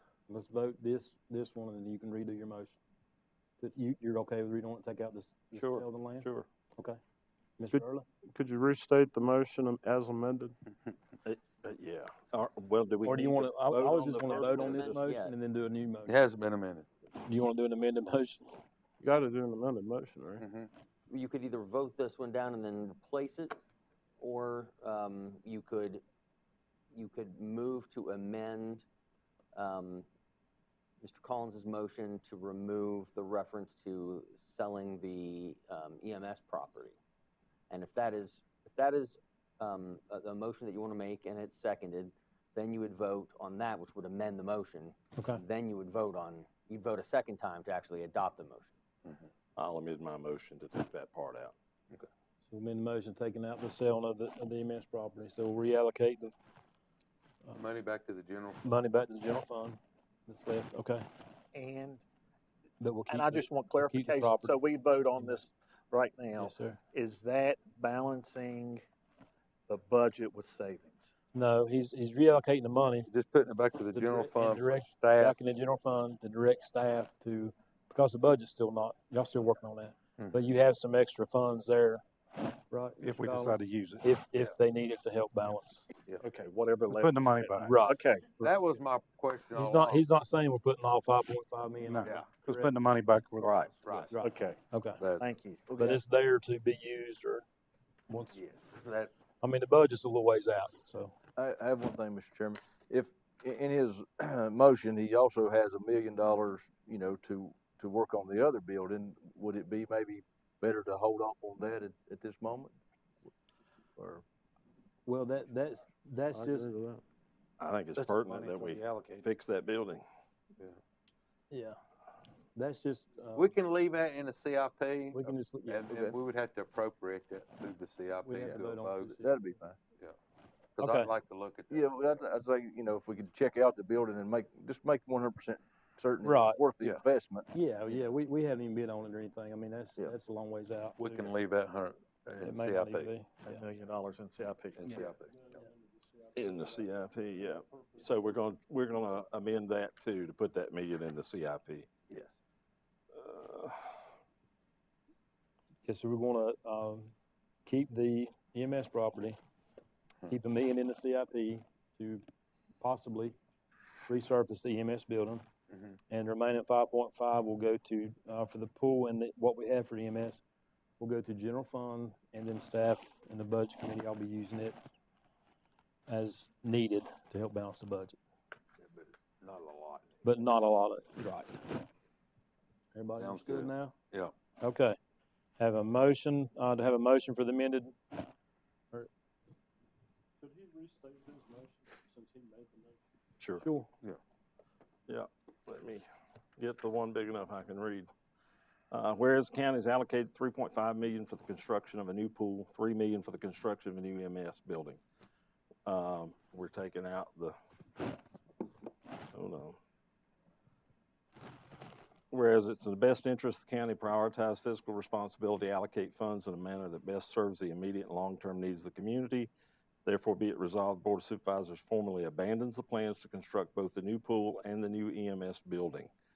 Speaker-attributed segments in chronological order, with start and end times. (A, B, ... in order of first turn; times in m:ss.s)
0:00.3-0:02.8 A
0:03.6-0:07.0 A
0:05.5-0:06.5 B
0:07.6-0:08.1 A
0:07.7-0:10.6 C
0:11.3-0:14.9 B
0:13.0-0:16.2 A
0:14.2-0:15.4 D
0:16.0-0:16.9 E
0:17.2-0:18.6 A
0:19.0-0:20.4 C
0:20.4-0:20.7 E
0:21.1-0:23.6 D
0:24.2-0:26.0 D
0:26.9-0:28.8 D
0:29.6-0:30.1 D
0:31.0-0:37.0 D
0:37.7-0:48.8 D
0:45.2-0:45.4 A
0:49.6-0:51.5 B
0:52.4-0:56.3 A
0:57.5-0:58.6 E
0:58.6-1:01.0 A
1:01.5-1:02.0 F
1:02.8-1:04.6 A
1:03.1-1:08.8 F
1:05.1-1:05.4 A
1:06.4-1:06.8 A
1:09.7-1:11.1 F
1:11.3-1:13.1 A
1:13.0-1:15.5 E
1:13.9-1:22.0 A
1:22.7-1:25.9 A
1:23.0-1:24.1 G
1:24.3-1:24.6 E
1:26.2-1:28.4 F
1:26.9-1:27.7 G
1:27.7-1:28.5 A
1:28.4-1:30.1 E
1:29.5-1:32.8 A
1:31.8-1:33.6 G
1:33.4-1:34.1 B
1:33.8-1:34.2 E
1:34.1-1:35.1 A
1:34.2-1:34.6 F
1:35.0-1:36.0 E
1:35.2-1:35.8 F
1:35.7-1:37.4 A
1:38.1-1:38.4 A
1:38.3-1:39.1 E
1:39.4-1:41.1 A
1:41.4-1:52.8 H
1:55.1-1:56.7 A
1:56.3-1:57.0 C
1:57.6-2:00.0 B
1:58.0-1:59.3 G
2:01.5-2:01.8 A
2:02.6-2:03.5 A
2:03.3-2:09.2 E
2:05.1-2:05.9 A
2:08.2-2:09.3 A
2:08.4-2:09.8 H
2:10.8-2:12.2 E
2:10.8-2:11.1 A
2:11.7-2:17.5 H
2:16.2-2:16.7 A
2:17.5-2:21.4 A
2:21.0-2:23.2 E
2:22.4-2:23.7 A
2:23.4-2:25.1 F
2:24.8-2:25.6 E
2:25.3-2:28.4 C
2:26.4-2:31.9 B
2:33.1-2:33.9 B
2:35.8-2:37.1 A
2:37.7-2:39.4 A
2:40.3-2:42.2 A
2:42.8-2:43.4 A
2:44.1-2:45.4 A
2:46.1-2:50.4 A
2:51.0-2:54.9 A
2:56.1-2:58.2 A
2:58.8-3:00.1 E
3:00.2-3:01.6 A
3:02.9-3:03.9 A
3:03.2-3:04.3 E
3:04.6-3:05.0 A
3:05.6-3:07.9 A
3:10.4-3:13.0 C
3:13.4-3:13.6 B
3:13.6-3:13.9 A
3:15.1-3:16.0 B
3:16.6-3:18.1 B
3:18.9-3:25.0 B
3:25.9-3:27.6 B
3:29.3-3:29.8 B
3:32.3-3:39.5 B
3:40.0-3:46.1 B